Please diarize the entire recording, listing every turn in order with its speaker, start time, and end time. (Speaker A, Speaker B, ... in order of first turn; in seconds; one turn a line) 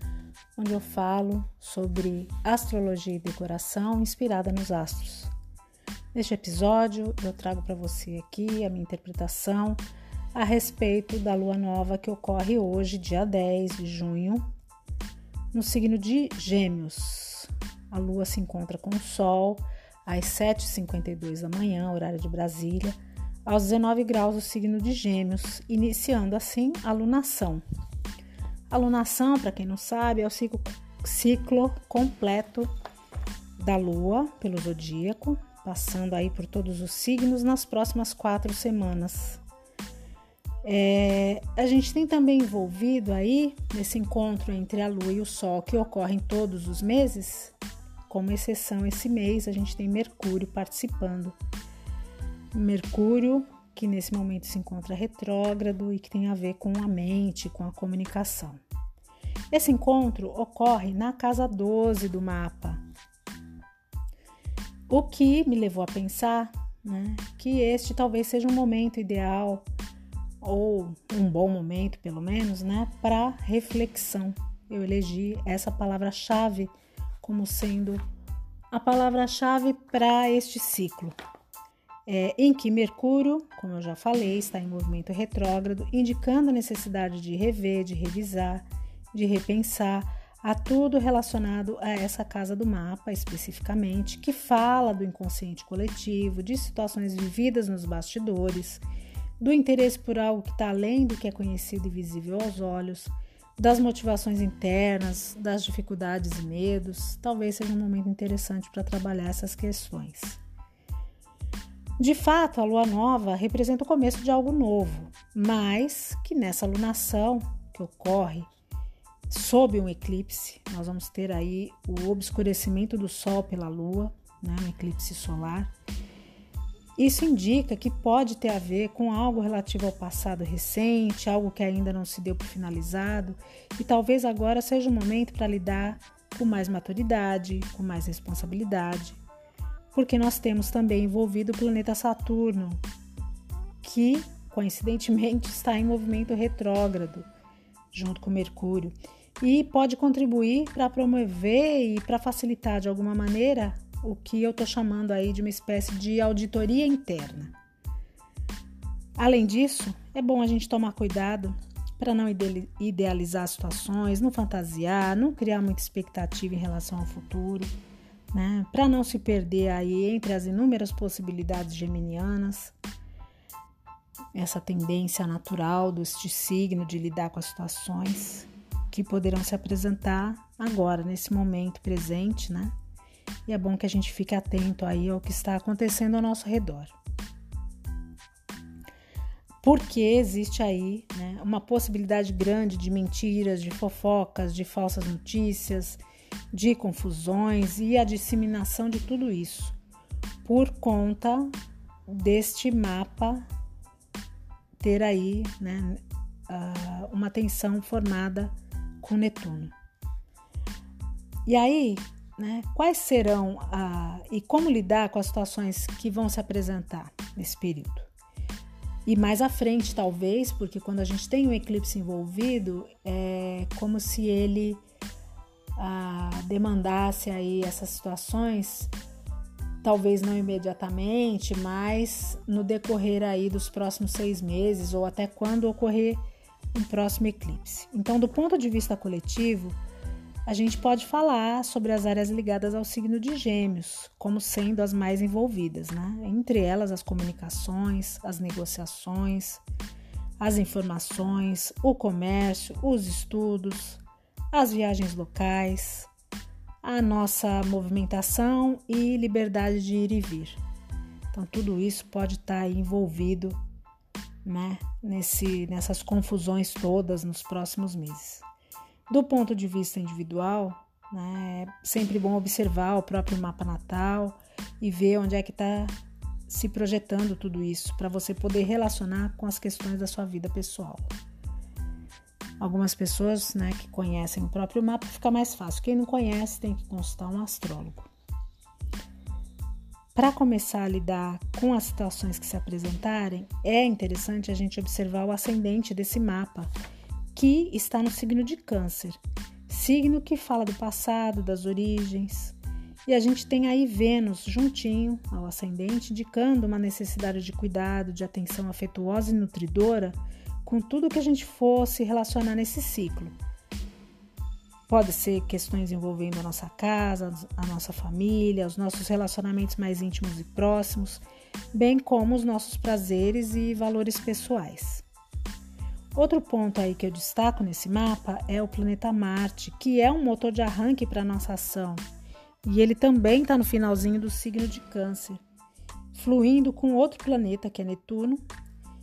Speaker A: 0.6-5.3
Speaker A: 6.1-9.8
Speaker A: 10.3-14.4
Speaker A: 15.5-27.6
Speaker A: 28.7-32.7
Speaker A: 33.6-39.4
Speaker A: 40.6-47.5
Speaker A: 48.1-51.4
Speaker A: 52.5-58.6
Speaker A: 59.5-62.8
Speaker A: 64.9-69.7
Speaker A: 70.4-78.0
Speaker A: 78.7-81.2
Speaker A: 82.1-98.8
Speaker A: 99.4-110.4
Speaker A: 112.0-118.5
Speaker A: 119.3-125.7
Speaker A: 127.0-139.2
Speaker A: 139.9-142.8
Speaker A: 143.8-147.3
Speaker A: 147.9-157.5
Speaker A: 159.2-167.7
Speaker A: 168.3-172.7
Speaker A: 174.3-182.7
Speaker A: 183.4-186.9
Speaker A: 189.6-196.0
Speaker A: 196.5-199.8
Speaker A: 200.4-201.5
Speaker A: 202.1-203.5
Speaker A: 204.8-209.7
Speaker A: 211.4-218.1
Speaker A: 219.1-224.8
Speaker A: 225.8-228.9
Speaker A: 229.8-236.2
Speaker A: 236.7-239.8
Speaker A: 240.5-249.6
Speaker A: 250.4-256.1
Speaker A: 256.8-260.6
Speaker A: 261.3-263.6
Speaker A: 264.4-268.4
Speaker A: 269.1-275.9
Speaker A: 276.5-281.1
Speaker A: 282.6-288.1
Speaker A: 290.1-296.7
Speaker A: 297.3-313.4
Speaker A: 314.9-325.1
Speaker A: 326.1-332.0
Speaker A: 332.6-335.4
Speaker A: 336.1-338.4